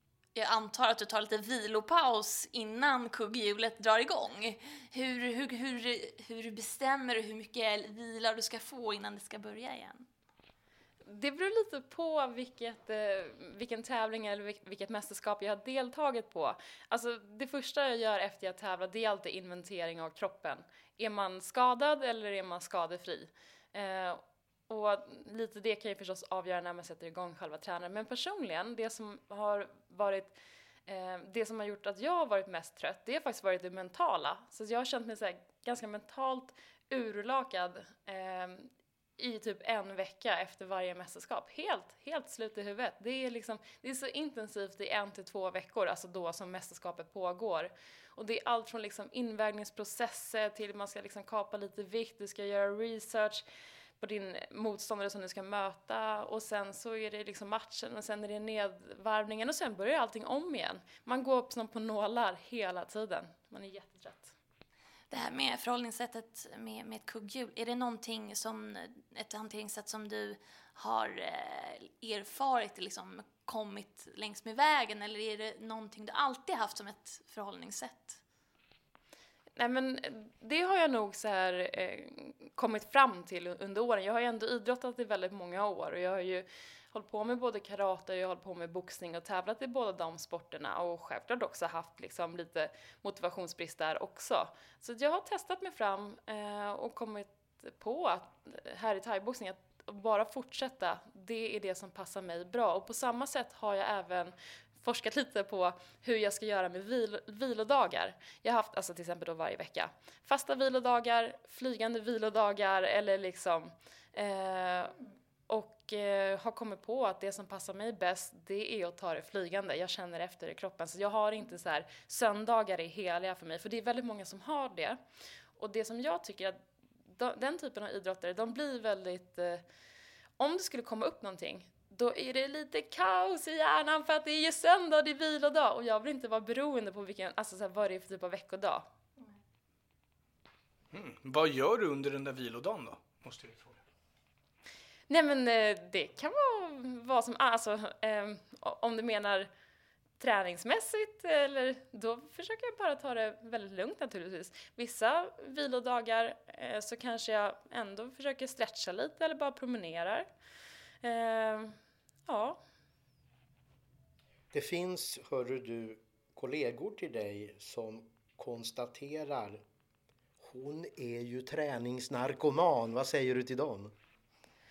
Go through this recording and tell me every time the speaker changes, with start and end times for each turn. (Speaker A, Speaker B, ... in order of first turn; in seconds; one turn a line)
Speaker A: 0.3-10.1
Speaker B: 11.1-30.4
Speaker B: 30.9-53.4
Speaker B: 54.0-64.3
Speaker A: 65.1-78.2
Speaker B: 79.6-114.9
Speaker B: 115.5-125.0
Speaker B: 125.6-126.6
Speaker B: 127.1-129.6
Speaker B: 130.4-138.8
Speaker C: 140.9-143.8
Speaker B: 145.1-149.5
Speaker B: 150.2-160.3
Speaker B: 161.0-161.7
Speaker B: 162.3-162.6
Speaker D: 164.5-169.6
Speaker D: 170.4-173.9